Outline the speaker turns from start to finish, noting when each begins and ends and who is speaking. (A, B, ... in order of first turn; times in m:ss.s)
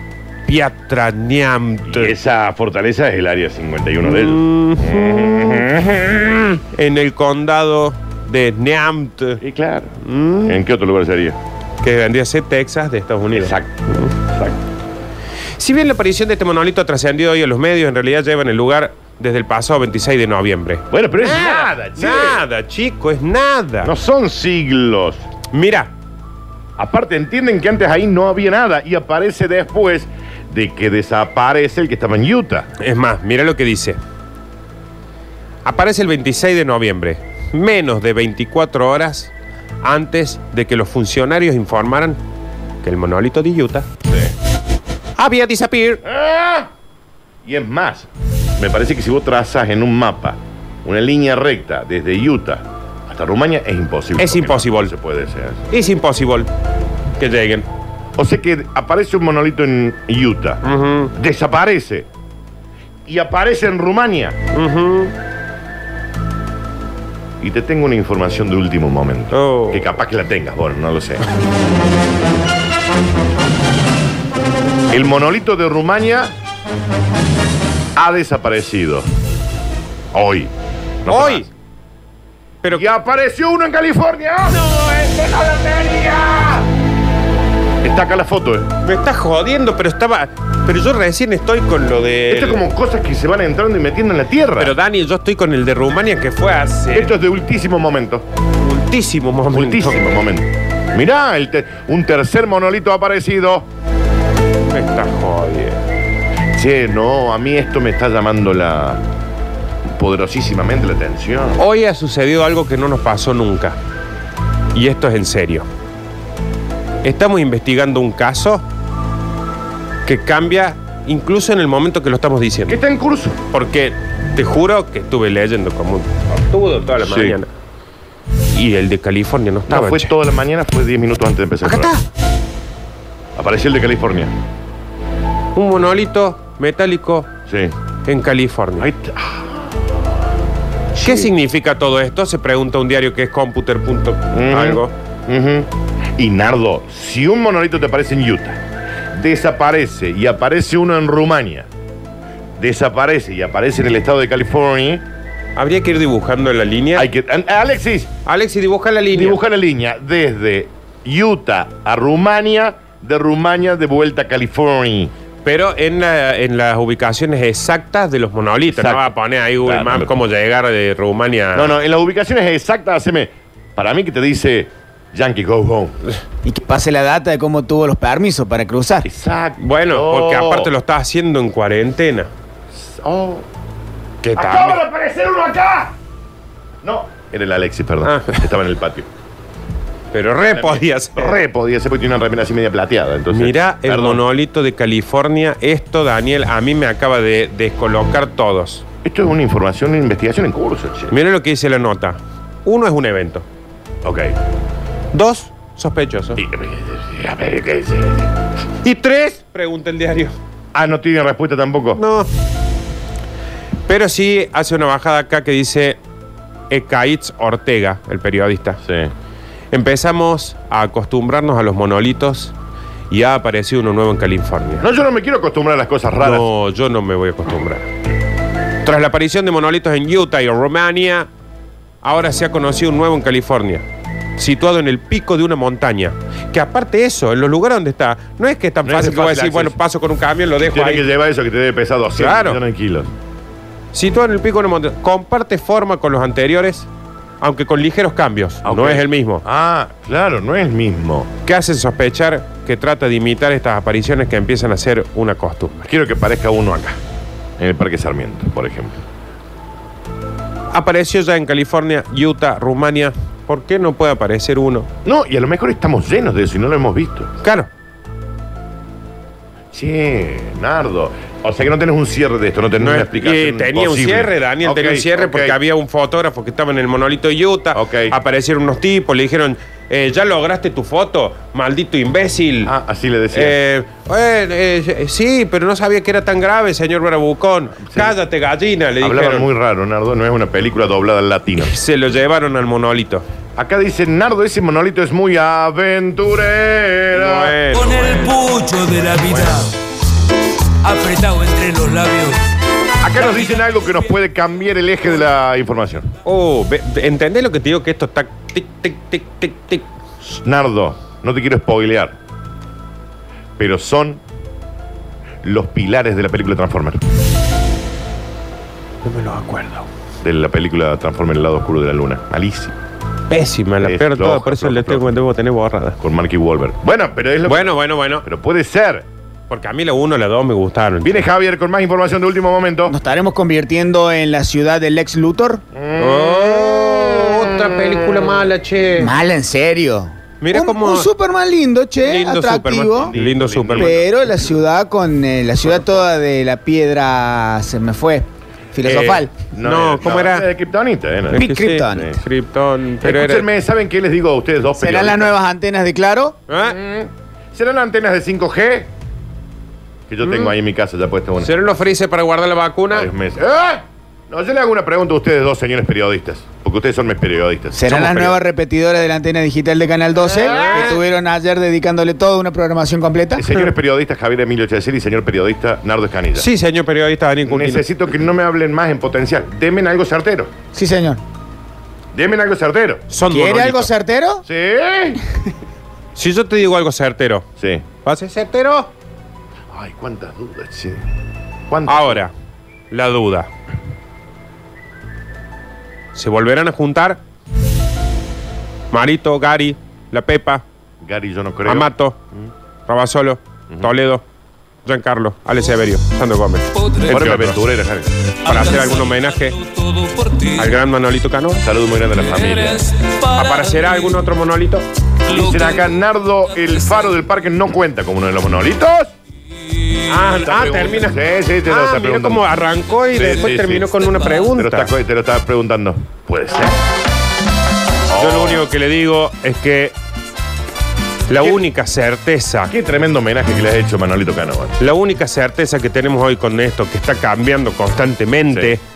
0:00.5-0:02.2 A
0:01.9-0:06.6 B
0:04.0-0:05.7 A
0:06.7-0:09.4 A
0:09.4-0:11.4 B
0:10.0-0:10.6 A
0:11.8-0:14.1 A
0:13.3-0:14.6 B
0:15.6-0:23.9 A
0:20.9-0:22.4 B
0:23.8-0:25.2 B
0:25.5-0:25.9 A
0:26.8-0:32.7 B
0:32.8-0:34.0 A
0:35.6-0:42.2 A
0:42.8-0:43.9 A
0:44.1-0:44.3 B
0:45.2-0:46.0 A
0:46.0-0:46.7 B
0:47.4-0:55.6 B
0:54.2-0:54.9 A
0:55.7-0:56.5 A
0:57.2-0:57.7 A
0:58.2-1:00.6 B
1:00.6-1:01.1 A
1:01.2-1:02.1 B
1:03.1-1:04.4 B
1:04.5-1:05.1 A
1:07.4-1:11.2 B
1:09.3-1:10.0 A
1:14.9-1:16.3 B
1:18.0-1:19.1 B
1:20.1-1:20.5 B
1:21.0-1:21.5 B
1:21.1-1:21.5 A
1:22.7-1:24.6 B
1:24.5-1:26.1 A
1:25.7-1:26.6 B
1:27.8-1:28.7 B
1:28.8-1:32.6 A
1:32.3-1:34.7 B
1:34.6-1:37.1 A
1:36.9-1:38.2 B
1:38.6-1:40.0 A
1:39.5-1:43.7 B
1:44.7-1:45.8 A
1:46.6-1:49.0 B
1:49.9-1:51.6 B
1:51.6-1:53.8 A
1:54.7-1:55.7 A
1:57.0-1:58.6 A
2:00.0-2:02.8 A
2:02.7-2:03.4 B
2:03.5-2:07.5 A
2:07.0-2:07.4 B
2:08.5-2:10.1 A
2:09.7-2:11.9 B
2:11.6-2:12.0 A
2:13.4-2:14.3 B
2:15.6-2:17.3 A
2:17.5-2:17.7 B
2:18.1-2:18.9 A
2:18.8-2:19.8 B
2:21.0-2:21.3 B
2:21.0-2:24.9 A
2:24.3-2:28.6 B
2:29.1-2:31.7 B
2:32.6-2:35.0 B
2:35.6-2:37.1 A
2:37.0-2:38.1 B
2:38.3-2:39.4 A
2:39.1-2:45.1 B
2:45.4-2:51.7 A
2:48.7-2:49.1 B
2:49.6-2:50.1 B
2:51.5-2:56.0 B
2:56.4-2:59.1 C
2:59.0-3:00.7 B
2:59.6-3:02.3 A
3:02.8-3:03.5 B
3:04.2-3:04.8 A
3:04.4-3:05.9 B
3:06.8-3:09.1 B
3:08.0-3:08.4 A
3:10.1-3:11.4 A
3:10.5-3:14.2 B
3:13.3-3:18.8 A
3:19.0-3:21.1 B
3:21.1-3:23.5 A
3:24.0-3:24.3 B
3:25.1-3:26.4 A
3:26.4-3:28.3 B
3:28.8-3:30.4 A
3:30.7-3:32.0 B
3:32.0-3:32.3 A
3:33.9-3:36.0 A
3:36.7-3:38.8 A
3:38.8-3:39.1 B
3:39.7-3:42.5 A
3:43.1-3:44.8 A
3:44.8-3:46.5 B
3:46.2-3:47.9 A
3:48.8-3:51.3 A
3:52.0-3:53.8 A
3:54.4-4:01.1 A
3:58.8-3:59.8 B
4:00.6-4:03.1 B
4:02.2-4:02.6 A
4:03.9-4:06.9 A
4:07.4-4:09.4 A
4:08.6-4:11.3 B
4:11.4-4:15.9 A
4:15.9-4:17.0 B
4:17.6-4:19.0 B
4:20.7-4:24.9 A
4:25.0-4:27.3 B
4:27.4-4:27.7 A
4:29.7-4:35.6 B
4:32.8-4:42.7 A
4:37.7-4:38.2 B
4:42.6-4:43.6 B
4:43.3-4:49.5 A
4:47.8-4:48.2 B
4:49.0-4:51.7 B
4:51.6-4:53.2 A
4:53.6-4:57.6 B
4:57.1-4:58.3 A
4:57.7-4:59.7 D
5:00.8-5:02.4 D
5:03.0-5:06.1 B
5:06.2-5:09.9 A
5:10.3-5:12.2 B
5:13.6-5:14.2 B
5:15.4-5:17.0 B
5:19.0-5:19.9 A
5:20.2-5:22.7 B
5:23.3-5:26.0 A
5:23.8-5:25.1 B
5:26.0-5:29.0 B
5:27.5-5:28.2 A
5:29.5-5:31.3 A
5:31.0-5:32.9 B
5:32.9-5:35.6 C
5:35.7-5:38.0 B
5:36.0-5:39.1 A
5:39.0-5:43.1 C
5:40.4-5:41.1 A
5:42.0-5:44.0 A
5:43.1-5:44.1 B
5:43.8-5:49.3 C
5:48.8-5:50.5 A
5:49.5-5:51.4 B
5:51.3-5:53.5 A
5:51.4-5:52.1 C
5:53.0-5:55.3 B
5:54.8-5:56.4 C
5:56.5-5:56.8 A
5:56.6-5:58.9 B
6:00.1-6:01.5 B
6:00.2-6:00.6 A
6:01.4-6:03.1 A
6:02.9-6:08.4 B
6:07.8-6:13.5 C
6:07.9-6:08.2 A
6:10.3-6:11.0 A
6:10.5-6:10.8 B
6:13.4-6:16.5 B
6:16.4-6:17.8 A
6:17.5-6:20.5 B
6:20.7-6:21.2 C
6:22.2-6:23.0 B
6:23.1-6:23.9 A
6:23.3-6:24.4 C
6:24.4-6:25.2 B
6:26.2-6:27.5 A
6:27.6-6:27.8 B
6:28.0-6:28.9 A
6:29.7-6:31.0 B
6:31.7-6:32.2 B
6:31.9-6:32.3 A
6:32.9-6:33.5 A
6:36.2-6:37.2 A
6:38.9-6:40.6 A
6:41.0-6:42.5 B
6:41.6-6:42.2 A
6:42.9-6:44.2 A
6:44.8-6:47.6 A
6:47.1-6:48.1 B
6:48.4-6:49.6 A
6:49.6-6:50.6 D
6:50.6-6:51.6 A
6:51.6-6:52.9 B
6:52.7-6:53.1 D
6:53.3-6:54.9 A
6:55.3-6:59.1 B
7:00.1-7:04.9 A
7:00.4-7:02.4 B
7:03.1-7:04.0 B
7:04.5-7:06.8 B
7:08.1-7:08.6 B
7:08.2-7:10.0 A
7:11.3-7:12.7 A
7:12.7-7:14.8 B
7:14.8-7:18.8 A
7:18.5-7:18.8 B